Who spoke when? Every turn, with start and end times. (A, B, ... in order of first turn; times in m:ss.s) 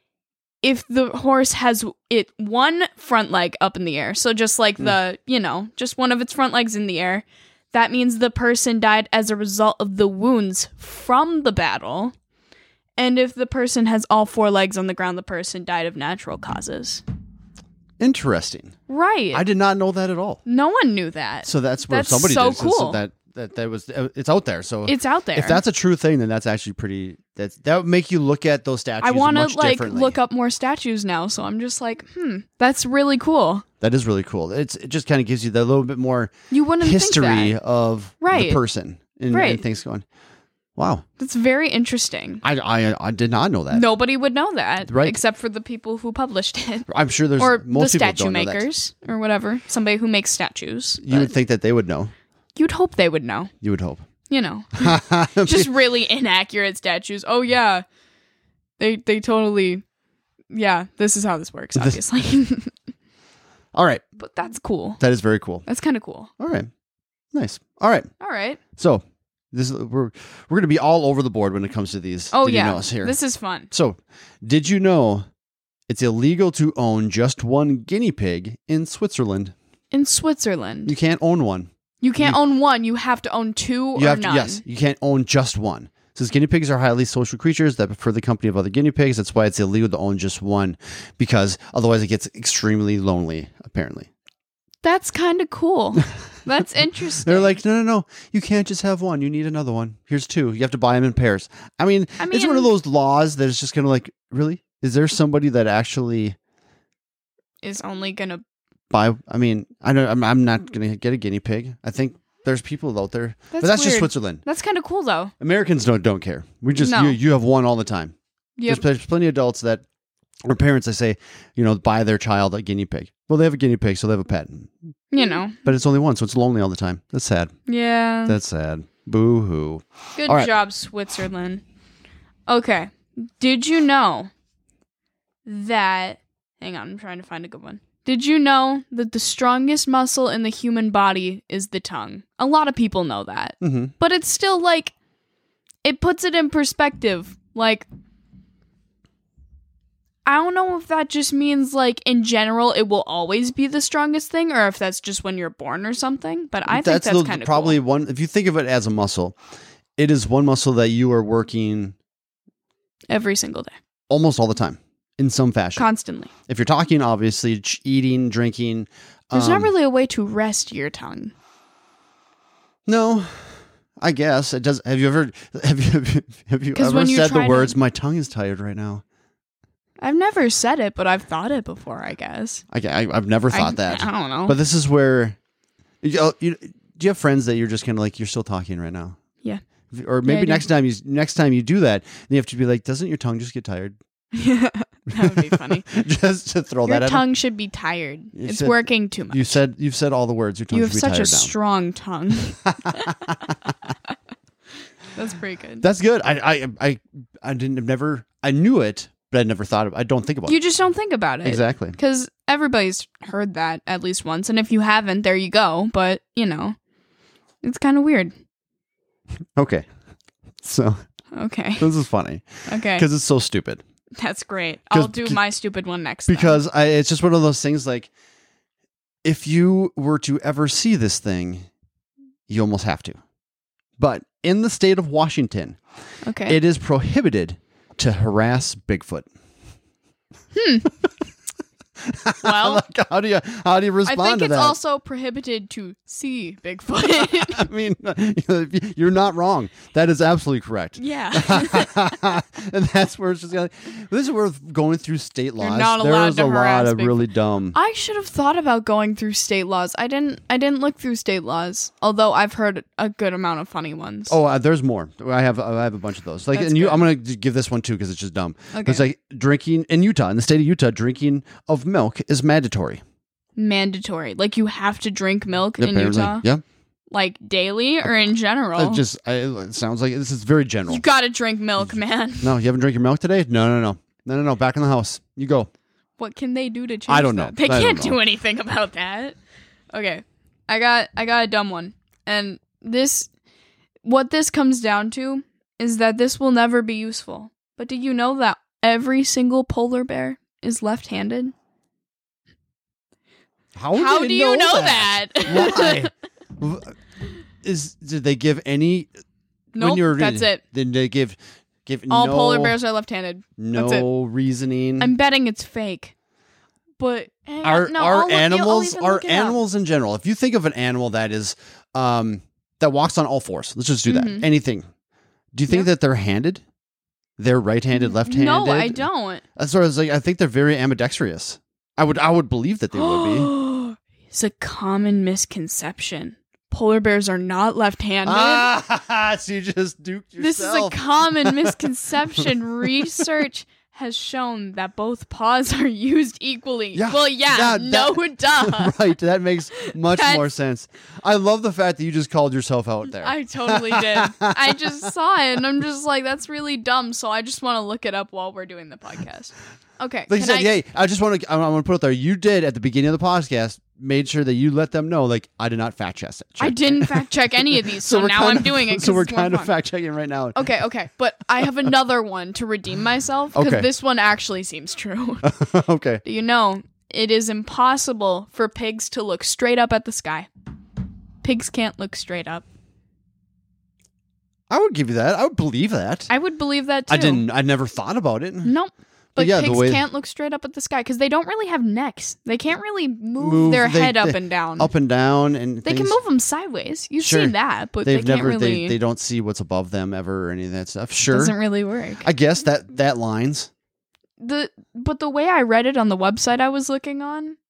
0:00.6-0:12.1 A
0:13.0-0:17.0 A
0:18.0-0:18.8 B
0:18.9-0:19.4 A
0:19.3-0:20.4 B
0:20.4-0:23.0 A
0:21.4-0:30.2 B
0:24.8-0:25.6 A
0:29.0-0:33.6 A
0:33.8-0:40.0 B
0:36.5-0:37.6 A
0:38.2-0:38.6 A
0:39.3-0:39.6 A
0:40.8-0:41.0 B
0:41.2-0:42.4 A
0:42.4-0:43.9 B
0:43.7-0:51.3 A
0:44.8-0:45.2 B
0:46.9-0:48.6 B
0:51.0-0:52.1 B
0:52.6-0:53.5 A
0:53.6-0:54.0 B
0:54.3-0:57.8 A
0:54.8-0:55.7 B
0:58.8-0:59.8 A
1:00.5-1:02.7 A
1:03.7-1:04.0 B
1:04.2-1:05.0 A
1:05.0-1:05.6 B
1:05.6-1:06.3 A
1:06.4-1:06.7 B
1:07.3-1:08.1 B
1:08.2-1:08.6 A
1:08.8-1:13.2 B
1:12.3-1:13.7 A
1:13.7-1:15.2 B
1:15.9-1:19.5 B
1:19.9-1:20.9 A
1:20.8-1:22.4 B
1:22.0-1:24.6 A
1:24.0-1:34.1 B
1:34.8-1:37.6 A
1:37.2-1:46.4 B
1:42.2-1:42.7 A
1:47.6-1:48.4 A
1:48.9-1:54.4 B
1:53.5-1:55.3 A
1:55.4-1:58.1 B
1:56.8-1:57.2 A
1:58.6-1:58.8 A
1:58.7-1:59.8 B
2:00.4-2:07.5 B
2:05.1-2:05.6 A
2:07.7-2:08.4 A
2:08.2-2:10.5 B
2:10.2-2:11.6 A
2:12.5-2:14.3 A
2:15.4-2:24.9 A
2:23.6-2:23.9 B
2:25.8-2:27.9 A
2:30.2-2:37.8 A
2:36.7-2:39.4 B
2:40.0-2:42.0 B
2:43.1-2:43.8 A
2:44.1-2:45.8 B
2:45.8-2:46.3 A
2:46.5-2:49.7 B
2:49.3-2:51.3 A
2:52.8-2:59.0 B
2:56.7-2:57.7 A
3:00.0-3:02.6 A
3:02.7-3:05.4 B
3:03.5-3:04.6 A
3:06.0-3:09.2 B
3:09.9-3:14.0 B
3:10.2-3:10.6 A
3:14.3-3:15.9 A
3:15.1-3:17.2 B
3:16.8-3:19.6 A
3:18.3-3:21.5 B
3:20.7-3:23.3 A
3:22.6-3:23.5 B
3:25.1-3:25.8 A
3:25.8-3:30.6 B
3:30.5-3:36.8 A
3:31.4-3:32.0 B
3:37.6-3:38.3 A
3:39.5-3:39.8 B
3:40.6-3:41.0 B
3:41.3-3:41.9 A
3:41.8-3:43.8 B
3:42.7-3:43.0 A
3:44.2-3:46.6 A
3:44.9-3:45.4 B
3:46.3-3:48.1 B
3:49.2-3:51.7 B
3:52.5-3:53.2 B
3:54.0-3:55.8 B
3:56.2-3:56.6 A
3:56.4-3:59.3 B
4:00.5-4:00.9 A
4:02.0-4:04.8 B
4:02.4-4:02.8 A
4:04.0-4:07.6 A
4:07.2-4:17.8 B
4:11.0-4:12.0 A
4:15.6-4:24.4 A
4:24.3-4:33.0 B
4:26.5-4:27.1 A
4:28.7-4:29.0 A
4:33.6-4:36.4 A
4:35.8-4:36.6 B
4:37.1-4:39.0 A
4:38.8-4:41.0 B
4:40.9-4:42.5 A
4:42.4-4:45.7 B
4:46.2-4:49.4 A
4:47.1-4:48.2 B
4:49.9-4:53.3 A
4:54.0-5:01.5 A
5:03.7-5:06.9 B
5:03.9-5:06.1 A
5:07.6-5:09.1 B
5:09.7-5:10.6 A
5:09.8-5:12.8 B
5:12.1-5:14.1 A
5:13.6-5:15.1 B
5:15.0-5:16.1 A
5:17.0-5:19.6 A
5:17.6-5:24.8 B
5:24.1-5:24.5 A
5:25.5-5:26.6 B
5:27.4-5:33.5 B
5:27.9-5:29.4 A
5:32.9-5:38.7 A
5:38.2-5:41.8 B
5:40.4-5:49.1 A
5:42.4-5:43.1 B
5:46.9-5:55.1 B
5:49.8-5:50.4 A
5:53.2-6:00.7 A
6:00.3-6:10.7 B
6:06.6-6:09.7 A
6:10.5-6:15.5 A
6:13.5-6:13.9 B
6:15.4-6:16.2 B
6:16.2-6:20.5 A
6:21.4-6:22.6 A
6:24.7-6:26.3 B
6:26.3-6:27.4 A
6:27.1-6:28.7 B
6:28.6-6:34.9 A
6:29.4-6:30.0 B
6:33.4-6:36.2 B
6:35.8-6:39.0 A
6:37.2-6:41.5 B
6:41.3-6:42.3 A
6:42.2-6:43.7 B
6:44.4-6:47.6 A